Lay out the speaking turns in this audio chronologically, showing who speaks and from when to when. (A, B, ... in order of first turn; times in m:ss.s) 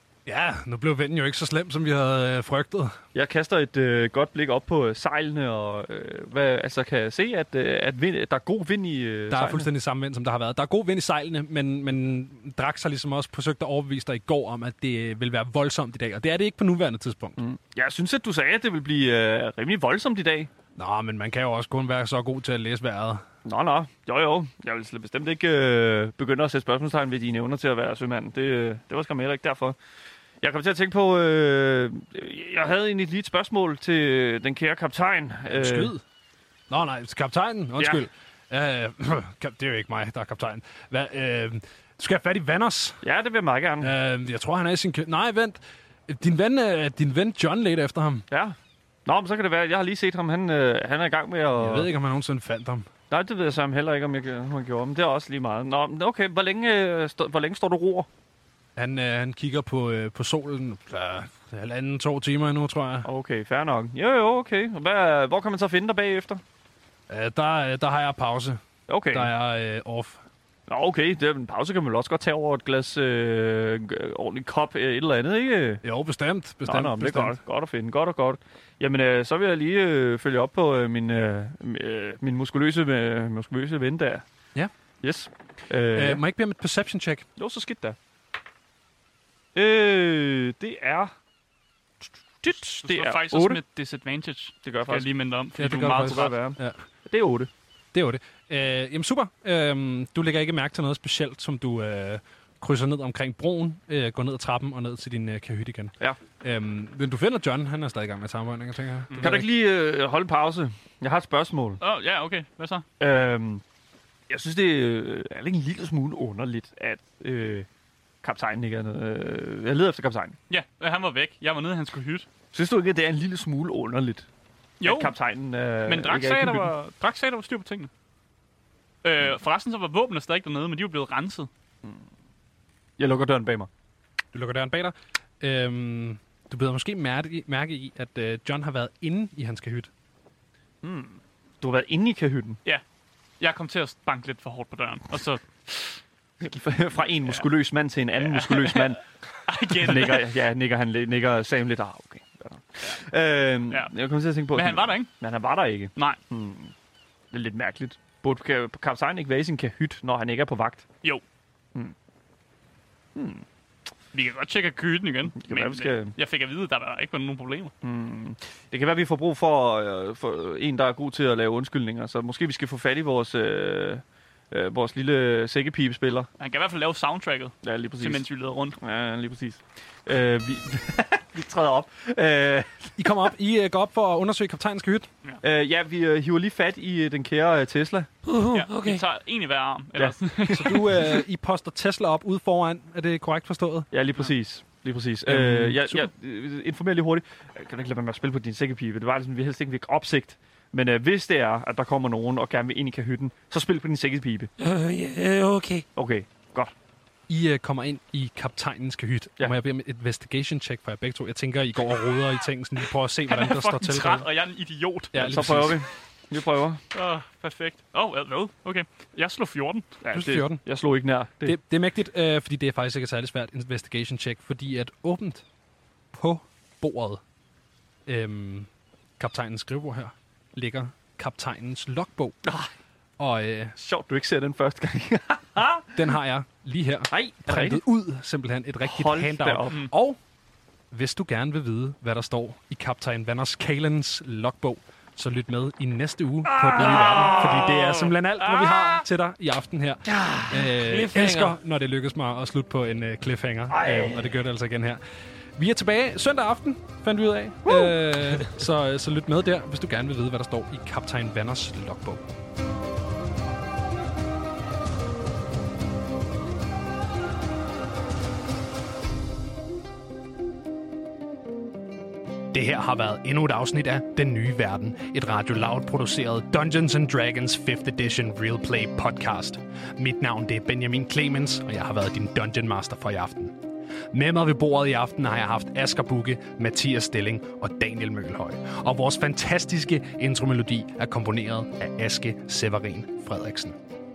0:00.2-0:03.0 A
0:03.1-0:09.7 B
0:09.3-0:17.4 A
0:17.4-0:20.5 B
0:20.8-0:23.2 A
0:23.4-0:29.8 B
0:30.4-0:35.9 B
0:35.5-0:36.0 A
0:36.7-0:43.0 A
0:37.8-0:38.0 B
0:43.0-0:43.9 B
0:43.8-0:48.2 A
0:48.3-0:51.9 B
0:51.6-0:52.9 A
0:53.1-0:58.1 B
0:58.8-1:03.1 A
1:03.0-1:06.4 B
1:07.1-1:10.2 A
1:08.9-1:09.3 B
1:10.7-1:15.8 B
1:15.8-1:17.4 A
1:16.6-1:24.2 B
1:25.0-1:26.2 B
1:25.9-1:27.2 A
1:27.4-1:28.0 B
1:29.5-1:31.1 B
1:32.4-1:33.6 B
1:32.8-1:36.4 C
1:34.6-1:35.1 B
1:35.6-1:36.8 A
1:35.8-1:37.5 B
1:37.9-1:49.4 A
1:49.1-1:49.4 C
1:49.2-1:51.8 B
1:51.8-1:52.8 C
1:53.0-1:53.6 B
1:54.3-1:57.7 B
1:58.2-2:00.4 B
2:00.5-2:02.3 C
2:02.5-2:04.3 B
2:04.8-2:05.1 C
2:04.8-2:06.7 B
2:05.8-2:07.9 C
2:09.0-2:11.5 C
2:13.0-2:13.7 B
2:14.3-2:19.9 A
2:20.8-2:22.6 B
2:23.4-2:25.9 C
2:26.4-2:29.0 B
2:28.2-2:30.3 C
2:29.7-2:36.7 B
2:34.5-2:35.1 C
2:37.3-2:40.8 B
2:43.1-2:43.4 B
2:44.1-2:47.7 C
2:45.4-2:46.1 B
2:47.8-2:56.3 B
2:56.4-2:58.8 C
2:57.6-2:58.2 B
2:58.8-3:03.0 B
3:03.0-3:05.1 A
3:05.4-3:08.1 B
3:08.2-3:09.0 D
3:08.5-3:10.9 C
3:10.0-3:10.8 B
3:10.4-3:13.9 A
3:13.9-3:24.5 B
3:15.2-3:16.1 A
3:24.6-3:25.8 D
3:25.9-3:26.7 B
3:27.3-3:34.2 A
3:33.3-3:35.4 C
3:35.1-3:35.8 A
3:35.2-3:36.8 B
3:36.9-3:40.0 C
3:40.0-3:41.6 B
3:40.1-3:40.6 A
3:41.4-3:45.4 A
3:46.1-3:47.2 A
3:48.1-3:52.4 A
3:52.4-3:52.7 B
3:53.2-3:53.8 A
3:53.8-3:56.0 B
3:55.9-4:00.2 A
3:57.1-3:57.8 B
3:58.8-3:59.9 B
4:00.9-4:15.0 A
4:06.4-4:09.0 B
4:10.1-4:11.6 D
4:13.7-4:14.3 B
4:15.6-4:22.2 A
4:32.5-4:43.5 A
4:44.1-4:53.8 A